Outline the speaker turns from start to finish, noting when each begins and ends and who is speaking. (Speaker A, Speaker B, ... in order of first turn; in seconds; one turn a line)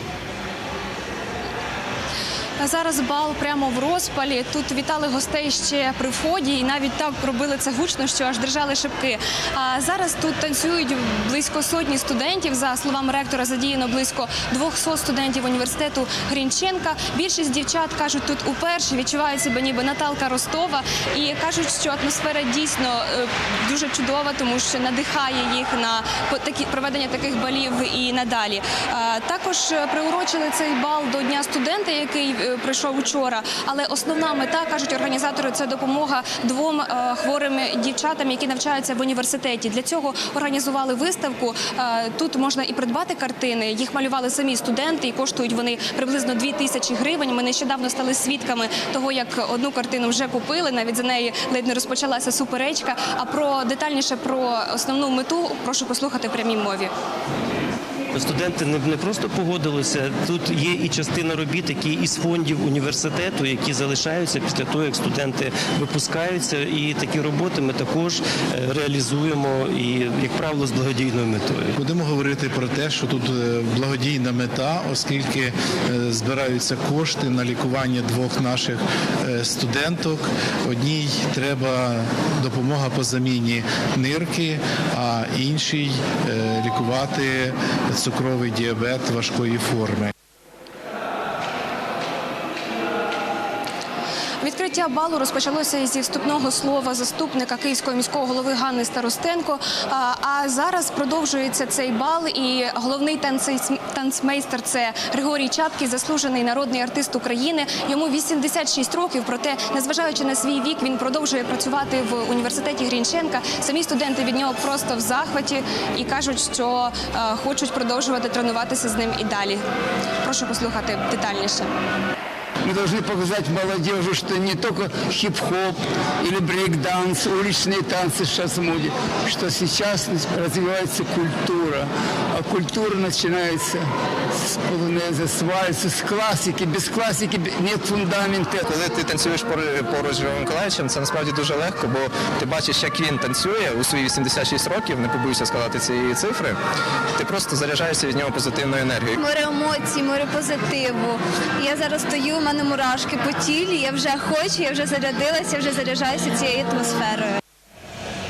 Speaker A: 2.6-56.9
Speaker B: 58.1-71.8
Speaker C: 71.7-90.1
Speaker A: 94.4-119.6
Speaker A: 120.2-121.7
Speaker D: 122.6-138.6
Speaker E: 138.6-146.6
Speaker E: 147.2-149.2
Speaker F: 149.2-157.4